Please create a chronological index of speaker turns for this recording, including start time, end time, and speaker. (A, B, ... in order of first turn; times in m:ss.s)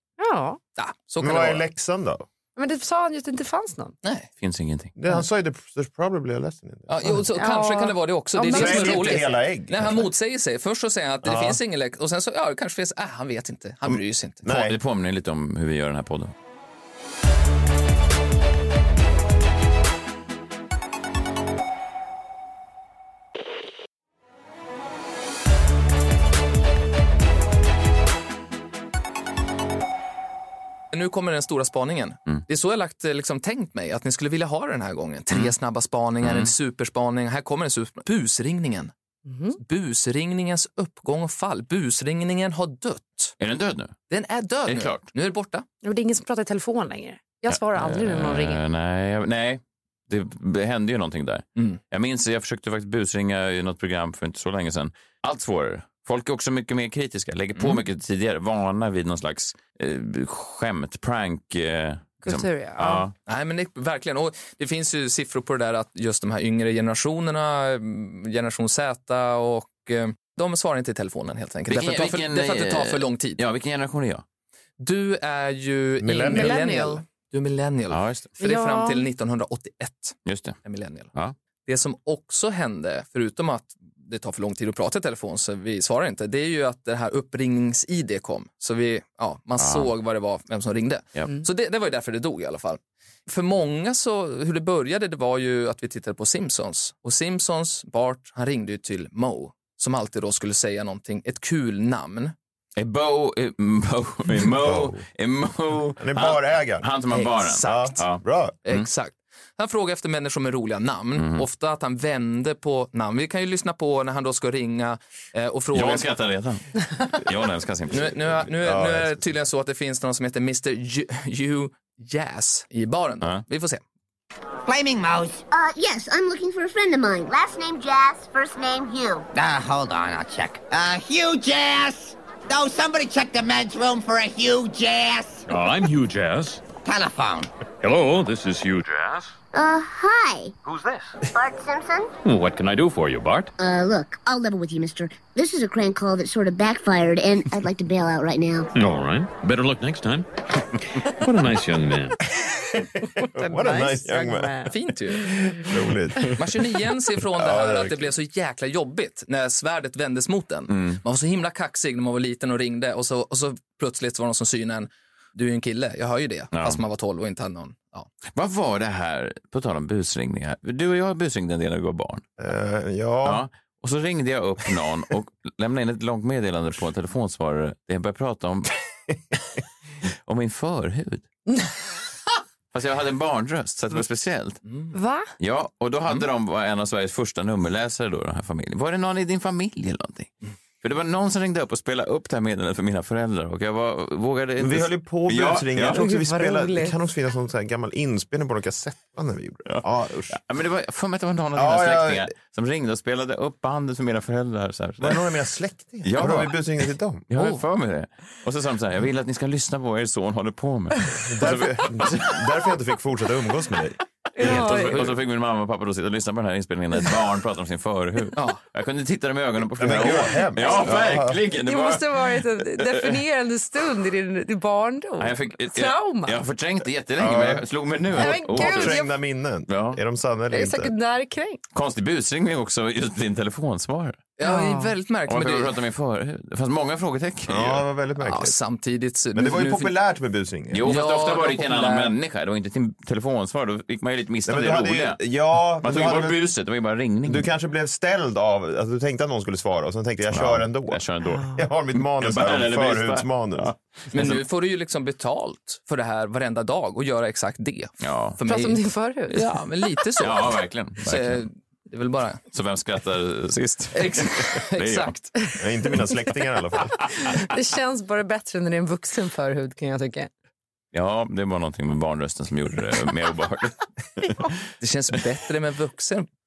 0:00.2-0:00.6 A
0:00.8-0:01.6 B
0:01.2-0:02.3 C
0:02.6-0:03.9 A
0:04.0-0:04.3 B
0:04.4-0:04.9 D
0:05.0-0:07.2 C
0:06.9-0:14.5 B
0:07.3-0:09.2 A
0:08.5-0:10.0 C
0:11.2-0:11.6 C
0:13.9-0:14.8 C
0:14.4-0:16.3 D
0:30.9-0:38.9 B
0:36.2-0:36.5 D
0:39.3-0:39.6 A
0:39.6-0:43.4 B
0:43.4-0:44.0 D
0:44.1-0:45.6 B
0:44.7-0:45.0 D
0:45.8-0:48.6 A
0:47.5-1:03.1 D
0:57.6-0:57.8 B
1:02.2-1:03.0 A
1:03.2-1:13.4 B
1:11.7-1:14.2 D
1:14.8-1:21.1 B
1:16.0-1:16.6 C
1:16.2-1:17.0 A
1:17.9-1:18.3 D
1:18.4-1:19.0 A
1:20.2-1:20.6 D
1:21.6-1:42.3 B
1:29.6-1:29.9 D
1:42.8-1:48.8 D
1:44.6-1:45.0 C
1:46.0-1:46.9 C
1:47.1-1:48.0 B
1:47.6-1:48.5 C
1:48.6-1:56.1 B
1:51.2-1:51.4 D
1:55.7-1:58.2 D
1:57.9-2:03.8 B
1:58.4-1:59.2 C
2:04.6-2:05.4 E
2:05.5-2:09.2 F
2:09.3-2:15.5 E
2:15.5-2:16.6 G
2:16.8-2:17.5 E
2:17.8-2:19.4 G
2:19.5-2:20.5 F
2:20.6-2:21.2 G
2:21.3-2:22.1 F
2:22.2-2:23.5 G
2:23.6-2:28.7 F
2:28.7-2:30.2 G
2:31.2-2:32.2 G
2:33.2-2:34.6 C
2:33.2-2:34.7 A
2:34.6-2:35.3 B
2:35.5-2:36.3 C
2:36.3-2:48.1 B
2:37.3-2:38.1 C
2:40.7-2:41.0 D
2:46.5-2:46.8 D
2:48.3-2:52.2 D
2:52.4-2:53.4 C
2:53.2-2:58.7 D
3:00.3-3:01.3 D
3:02.7-3:04.6 D
3:04.7-3:04.9 B
3:04.9-3:05.3 A
3:05.4-3:16.0 D
3:14.6-3:20.4 C
3:15.9-3:16.9 A
3:19.7-3:25.2 D
3:21.5-3:22.3 C
3:25.0-3:27.3 C
3:26.0-3:26.6 D
3:27.3-3:32.6 D
3:31.2-3:35.0 C
3:34.4-3:35.0 A
3:34.4-3:43.2 D
3:39.8-3:41.4 C
3:40.6-3:46.4 A
3:45.2-3:49.0 D
3:47.2-3:50.9 C
3:48.1-3:49.1 A
3:49.7-3:50.0 D
3:50.5-3:51.6 A
3:51.7-3:54.3 D
3:54.4-3:55.7 B
3:54.4-3:54.9 A
3:55.3-3:57.8 D
3:57.5-3:58.6 C
3:58.2-3:59.9 B
3:59.3-4:00.9 C
4:00.7-4:05.2 D
4:00.8-4:02.1 B
4:04.4-4:06.4 C
4:05.8-4:07.5 D
4:07.2-4:13.7 C
4:10.3-4:14.4 D
4:14.1-4:22.4 B
4:18.0-4:18.4 D
4:18.4-4:19.6 A
4:20.2-4:21.4 D
4:22.5-4:25.2 D
4:23.9-4:25.2 B
4:25.6-4:27.1 C
4:27.2-4:30.3 A
4:30.9-4:34.3 D
4:34.8-4:36.3 B